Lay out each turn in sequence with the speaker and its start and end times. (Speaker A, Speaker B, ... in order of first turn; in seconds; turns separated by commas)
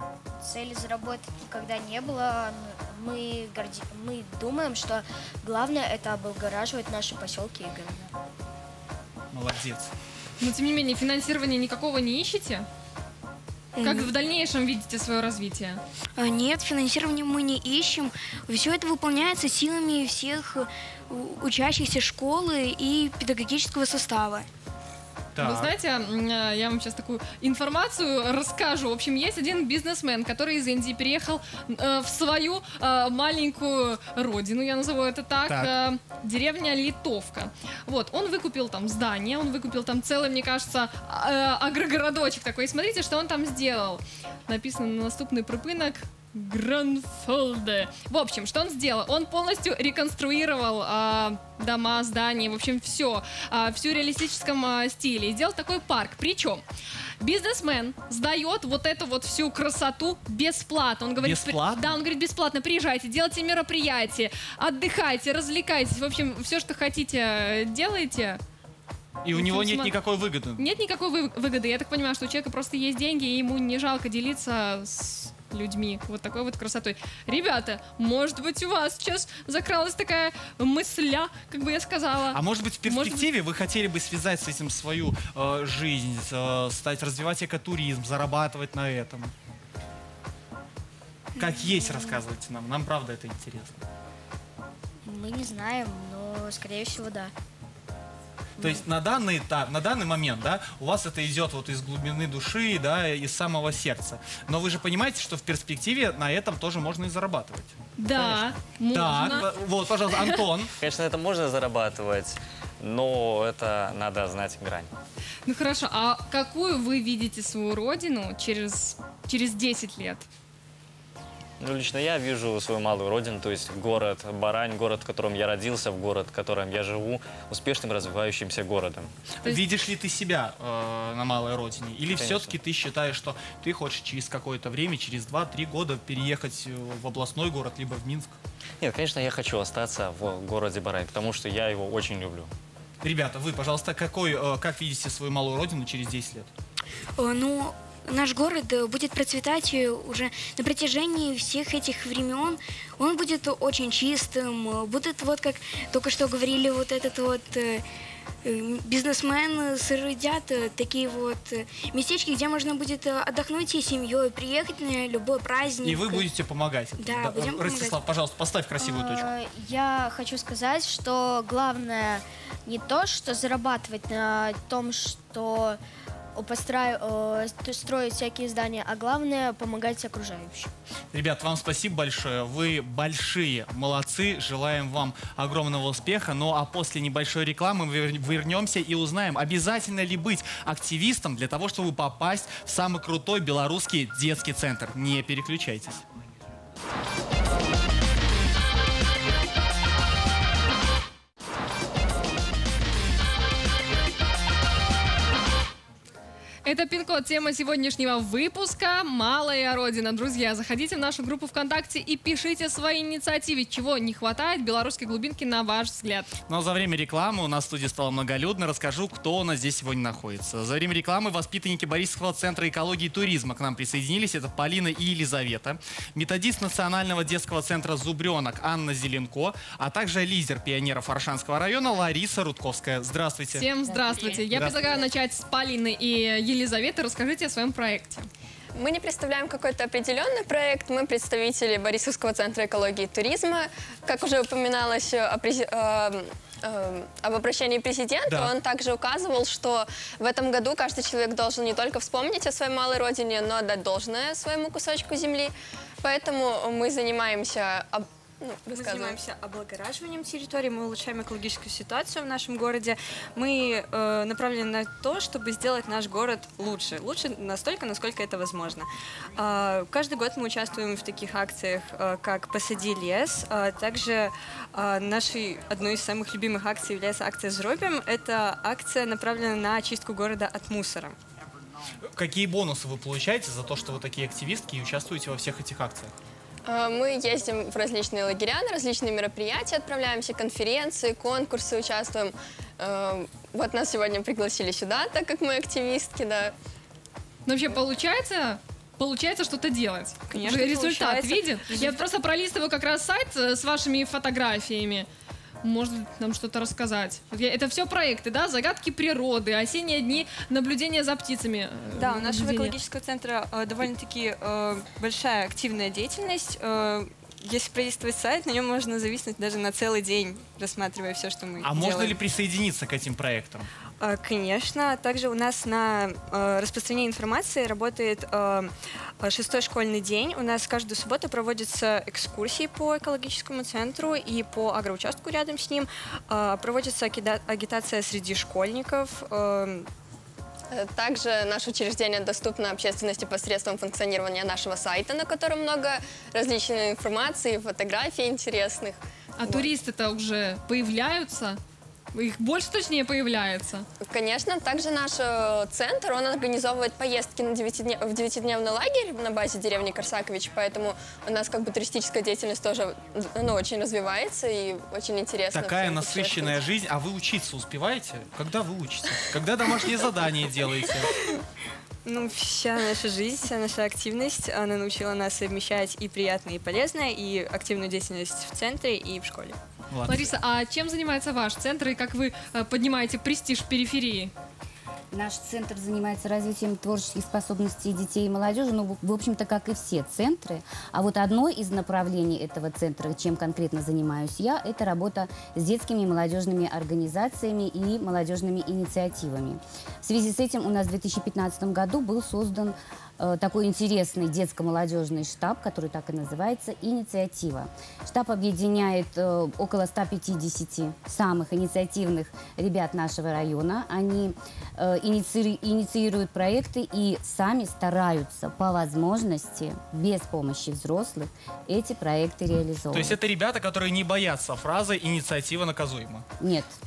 Speaker A: 0.4-8.1, Speaker B: 9.3-9.9, Speaker C: 10.4-12.7, Speaker D: 13.8-14.1, Speaker C: 13.8-15.8, Speaker D: 16.2-24.5, Speaker B: 25.3-25.7, Speaker C: 25.4-56.6, Speaker C: 57.2-68.4, Speaker B: 61.2-62.0, Speaker B: 69.2-70.6, Speaker C: 69.3-69.9, Speaker C: 70.6-83.2, Speaker B: 82.3-89.3, Speaker B: 91.4-93.8, Speaker A: 95.0-97.3, Speaker B: 98.6-110.7, Speaker C: 108.0-109.4, Speaker E: 110.8-114.9, Speaker C: 115.5-120.2, Speaker E: 121.6-129.1, Speaker B: 129.4-138.4, Speaker E: 132.2-132.5, Speaker E: 138.8-142.5, Speaker B: 143.0-146.5, Speaker D: 147.2-157.8, Speaker D: 158.4-166.3, Speaker B: 165.8-169.2, Speaker D: 167.0-168.0, Speaker A: 168.8-175.8, Speaker A: 176.3-180.7, Speaker B: 181.1-196.0, Speaker C: 206.6-216.3, Speaker B: 216.5-233.7, Speaker C: 233.5-238.3, Speaker F: 233.9-234.1, Speaker B: 234.4-235.0, Speaker G: 238.8-259.2, Speaker B: 248.3-248.5, Speaker H: 258.7-281.1, Speaker B: 282.1-286.1, Speaker G: 286.6-296.5, Speaker C: 297.4-305.1, Speaker H: 300.3-302.0, Speaker C: 305.6-312.8, Speaker H: 312.0-322.2, Speaker B: 321.6-323.7, Speaker H: 324.0-339.9, Speaker G: 340.7-349.7, Speaker C: 349.4-351.6, Speaker C: 352.1-353.9, Speaker G: 354.1-366.6, Speaker B: 365.5-371.1, Speaker H: 372.1-379.6, Speaker B: 379.9-380.3, Speaker C: 380.1-384.3, Speaker F: 385.1-423.2, Speaker B: 422.9-426.2, Speaker F: 426.4-426.7